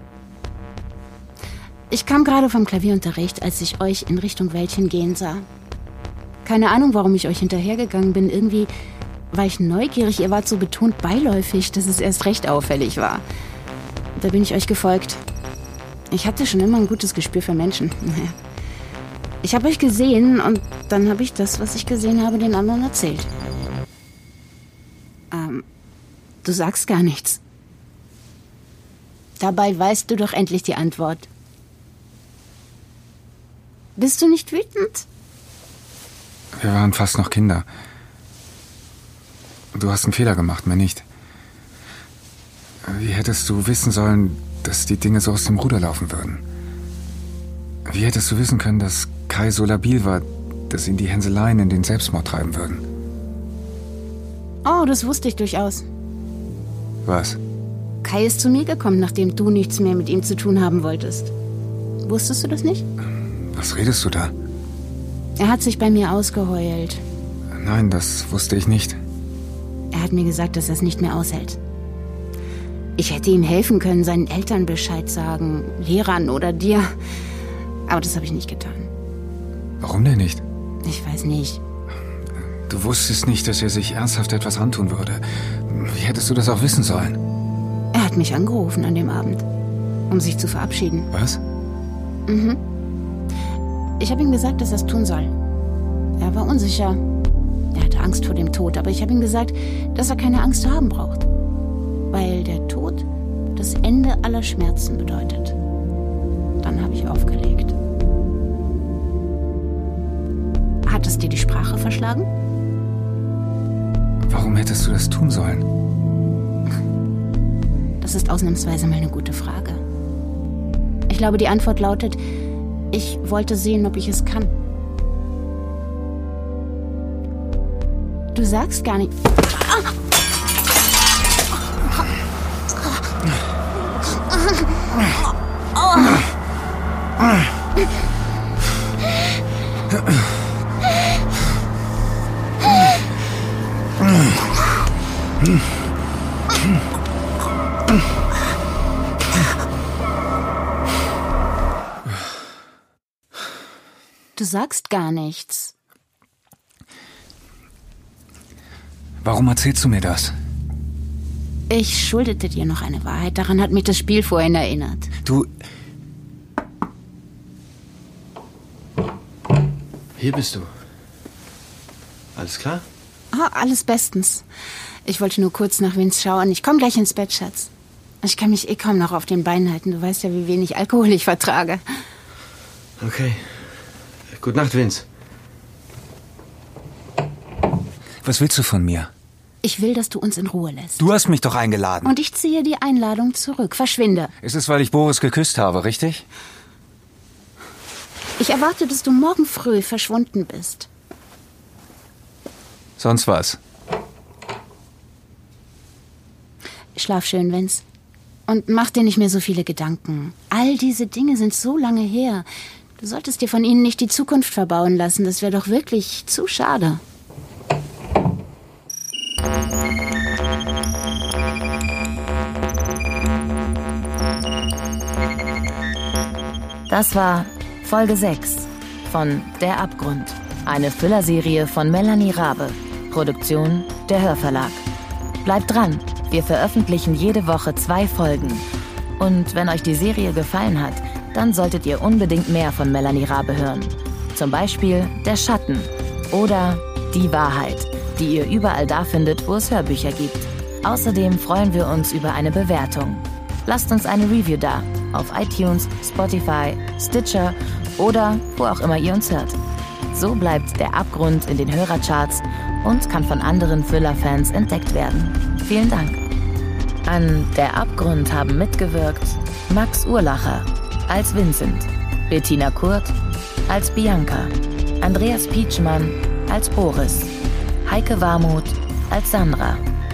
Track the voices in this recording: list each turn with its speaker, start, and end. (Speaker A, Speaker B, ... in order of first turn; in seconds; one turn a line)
Speaker A: 1.9-5.5
Speaker A: 6.4-8.7
Speaker A: 9.3-13.2
Speaker A: 14.2-15.2
Speaker A: 16.1-18.4
Speaker A: 19.4-23.3
Speaker A: 25.3-25.6
Speaker A: 26.4-27.4
Speaker A: 29.4-31.3
Speaker A: 34.0-35.0
Speaker B: 36.5-37.7
Speaker B: 39.7-41.1
Speaker B: 42.8-46.4
Speaker B: 47.9-52.8
Speaker A: 54.6-55.9
Speaker B: 57.0-57.4
Speaker A: 58.0-61.3
Speaker A: 62.0-62.9
Speaker B: 63.5-64.3
Speaker A: 65.4-67.0
Speaker B: 67.5-69.0
Speaker A: 69.9-71.6
Speaker A: 73.0-76.9
Speaker A: 77.9-78.9
Speaker B: 79.8-80.4
Speaker A: 80.8-81.6
Speaker B: 82.7-87.2
Speaker A: 87.9-89.5
Speaker A: 90.1-91.1
Speaker B: 91.1-91.4
Speaker A: 92.3-92.6
Speaker A: 94.0-95.3
Speaker A: 96.2-97.0
Speaker A: 97.7-101.2
Speaker A: 102.1-105.5
Speaker A: 106.6-107.8
Speaker A: 110.9-112.3
Speaker B: 114.2-115.7
Speaker A: 118.0-119.8
Speaker A: 121.1-122.2
Speaker A: 122.9-124.5
Speaker A: 128.3-129.1
Speaker A: 154.4-155.7
Speaker B: 159.2-160.3
Speaker A: 161.7-165.1
Speaker B: 165.2-165.5
Speaker C: 170.2-170.7
Speaker C: 172.3-172.8
Speaker A: 173.3-174.4
Speaker A: 175.1-177.7
Speaker A: 178.2-181.8
Speaker C: 183.0-183.5
Speaker C: 184.4-185.1
Speaker B: 188.2-189.1
Speaker A: 189.6-191.0
Speaker B: 191.0-192.2
Speaker A: 192.0-194.3
Speaker B: 194.4-196.2
Speaker A: 198.4-200.9
Speaker B: 203.0-203.6
Speaker A: 206.9-207.8
Speaker A: 208.5-212.5
Speaker A: 213.0-217.0
Speaker D: 226.9-234.8
Speaker D: 235.4-238.7
Speaker D: 239.2-259.6
Speaker D: 260.1-266.2
Speaker D: 267.1-273.1
Speaker D: 273.7-277.3
Speaker D: 277.9-279.8